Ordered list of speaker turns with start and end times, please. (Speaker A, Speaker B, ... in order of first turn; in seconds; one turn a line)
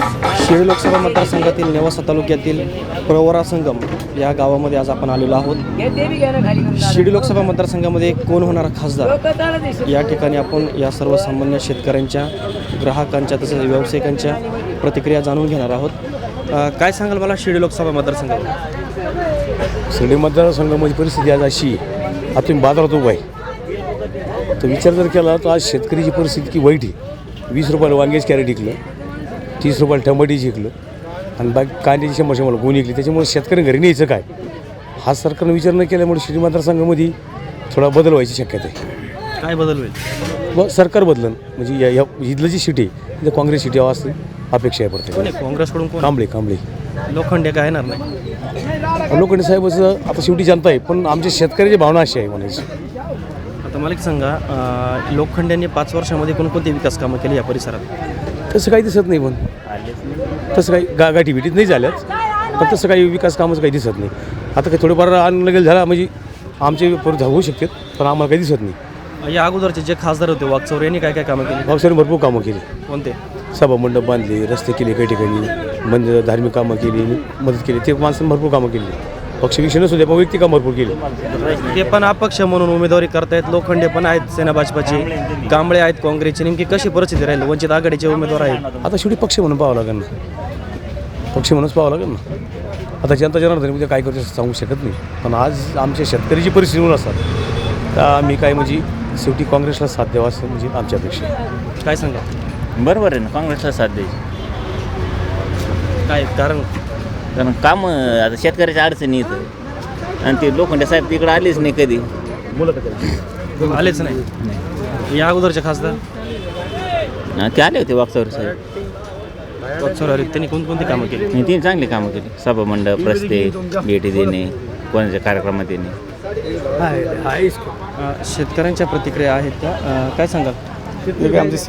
Speaker A: 0.3-5.6
Speaker A: 6.7-9.2
Speaker A: 9.8-16.0
Speaker A: 16.5-18.5
Speaker B: 19.9-21.8
Speaker B: 22.3-23.2
Speaker B: 24.6-26.9
Speaker B: 27.5-28.8
Speaker B: 29.6-30.7
Speaker B: 31.4-34.3
Speaker B: 35.0-37.2
Speaker B: 37.7-38.8
Speaker A: 39.4-40.0
Speaker B: 40.5-45.3
Speaker A: 45.1-46.1
Speaker B: 46.0-46.6
Speaker A: 47.1-48.0
Speaker B: 49.1-52.7
Speaker A: 53.6-57.9
Speaker B: 58.5-59.5
Speaker B: 60.5-68.8
Speaker A: 69.2-71.7
Speaker B: 71.7-72.7
Speaker A: 72.9-73.2
Speaker B: 73.5-81.0
Speaker A: 81.7-88.7
Speaker B: 88.8-90.1
Speaker B: 91.3-92.2
Speaker B: 93.0-97.2
Speaker B: 97.9-101.3
Speaker A: 101.8-102.3
Speaker C: 102.8-104.2
Speaker A: 106.1-106.7
Speaker C: 107.3-109.5
Speaker C: 110.2-112.1
Speaker A: 113.7-114.2
Speaker A: 115.1-116.0
Speaker C: 117.4-118.5
Speaker A: 119.8-121.3
Speaker C: 121.3-125.9
Speaker A: 128.0-130.6